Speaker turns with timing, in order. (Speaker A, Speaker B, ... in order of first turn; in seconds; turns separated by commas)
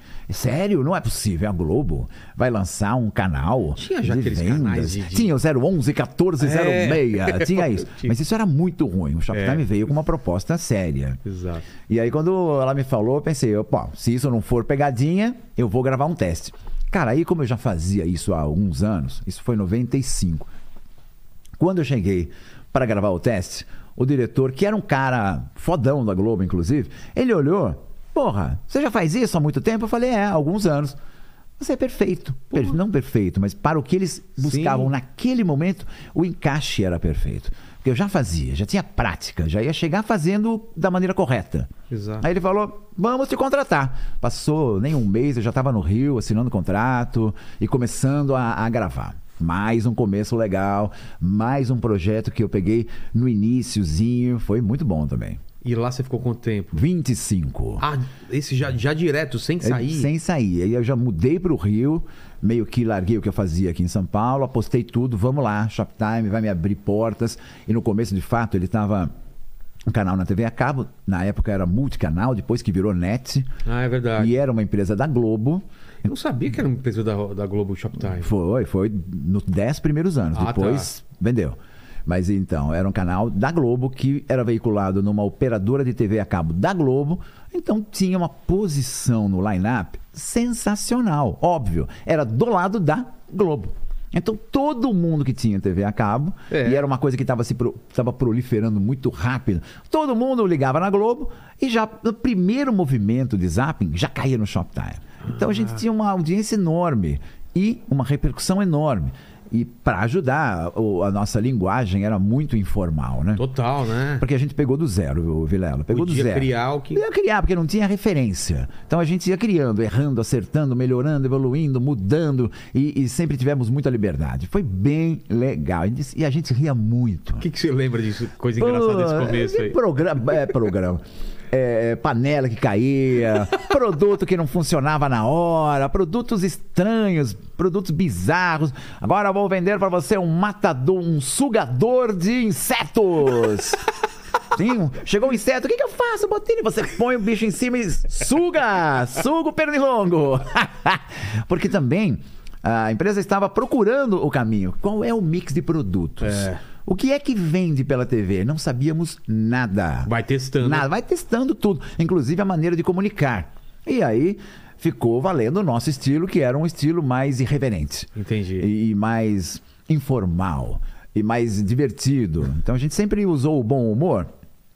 Speaker A: 0.3-11.2, Speaker B: 3.8-5.3, Speaker B: 6.4-8.1, Speaker B: 9.3-9.7, Speaker B: 11.2-11.7, Speaker A: 11.9-20.5, Speaker A: 21.6-31.0, Speaker A: 31.6-41.7, Speaker B: 34.4-34.9, Speaker B: 41.9-42.2, Speaker A: 42.2-55.4, Speaker B: 55.6-56.8, Speaker A: 56.7-57.9, Speaker B: 57.8-60.1, Speaker A: 59.6-69.1, Speaker A: 69.9-73.5, Speaker B: 73.7-74.3, Speaker A: 74.2-75.6, Speaker B: 76.0-78.3, Speaker A: 78.2-113.4, Speaker B: 80.3-80.9, Speaker B: 96.5-96.8, Speaker B: 113.4-114.2, Speaker A: 114.2-127.5, Speaker B: 115.9-117.0, Speaker B: 127.4-129.8, Speaker A: 128.6-143.8, Speaker A: 144.6-174.3, Speaker B: 156.2-156.6, Speaker B: 160.1-160.9, Speaker B: 168.2-168.7